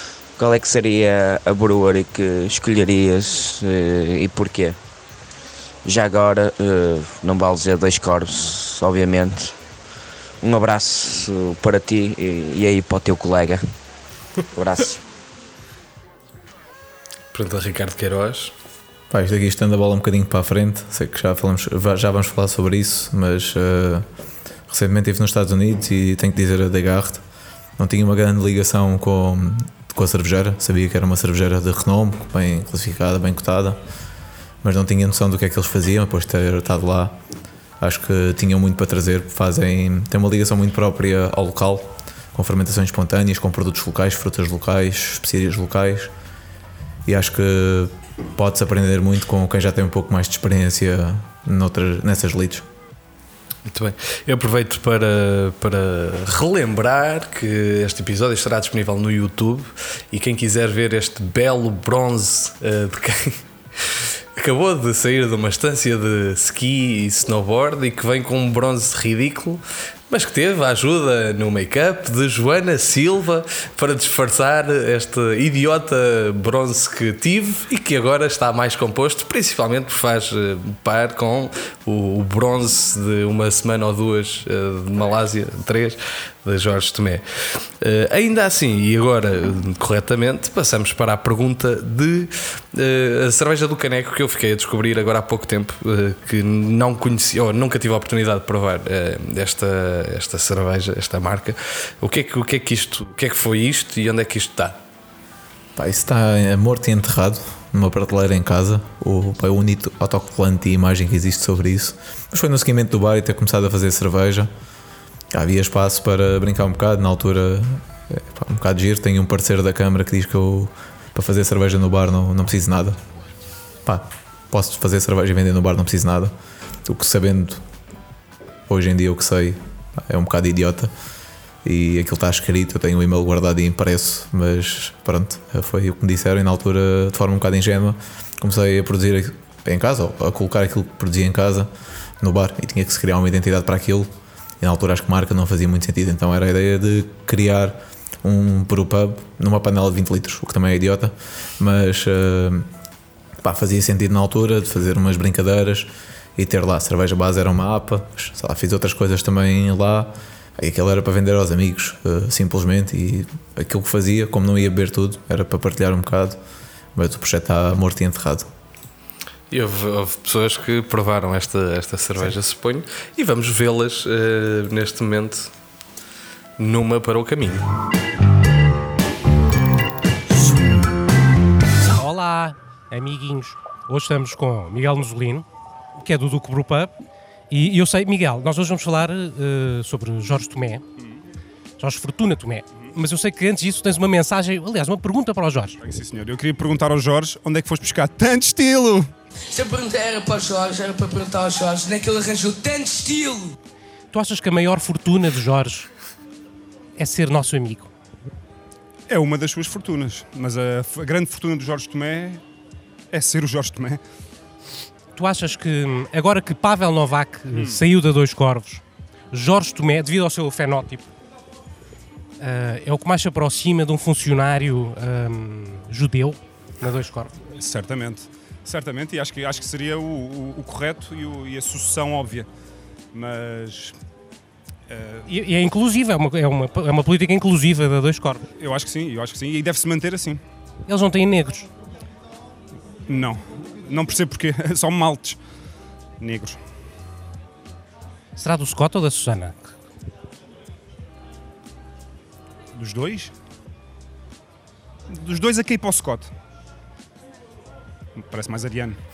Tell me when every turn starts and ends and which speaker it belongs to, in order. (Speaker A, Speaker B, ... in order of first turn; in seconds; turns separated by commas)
Speaker A: 0.4-4.8, Speaker A: 5.8-9.6, Speaker A: 10.4-13.6, Speaker A: 14.5-15.0, Speaker B: 17.3-18.5, Speaker C: 19.1-24.1, Speaker C: 24.7-27.2, Speaker C: 27.8-33.8, Speaker C: 34.6-37.2, Speaker C: 37.8-46.1, Speaker C: 47.0-52.6, Speaker B: 53.6-104.8, Speaker C: 105.8-114.5, Speaker C: 115.3-123.0, Speaker C: 123.8-126.3, Speaker C: 126.8-127.6, Speaker C: 128.7-130.9, Speaker C: 131.6-152.7, Speaker C: 153.4-166.4, Speaker C: 166.9-168.5, Speaker B: 169.5-175.5, Speaker B: 176.6-177.7, Speaker D: 181.9-186.9, Speaker D: 187.5-190.8, Speaker D: 191.8-195.8, Speaker E: 195.8-199.1, Speaker F: 199.5-203.5, Speaker D: 204.1-205.9, Speaker D: 207.0-207.9, Speaker E: 209.1-212.4, Speaker E: 213.1-214.0, Speaker D: 215.1-221.0, Speaker E: 217.5-217.8, Speaker D: 222.4-227.4, Speaker E: 227.4-232.5, Speaker E: 233.1-233.9, Speaker E: 234.9-235.3, Speaker D: 235.2-238.4, Speaker E: 238.6-240.4, Speaker D: 240.9-241.7, Speaker E: 243.1-245.4, Speaker E: 246.2-246.6, Speaker D: 248.4-249.7, Speaker E: 252.7-253.3, Speaker E: 255.1-256.3, Speaker E: 258.2-259.0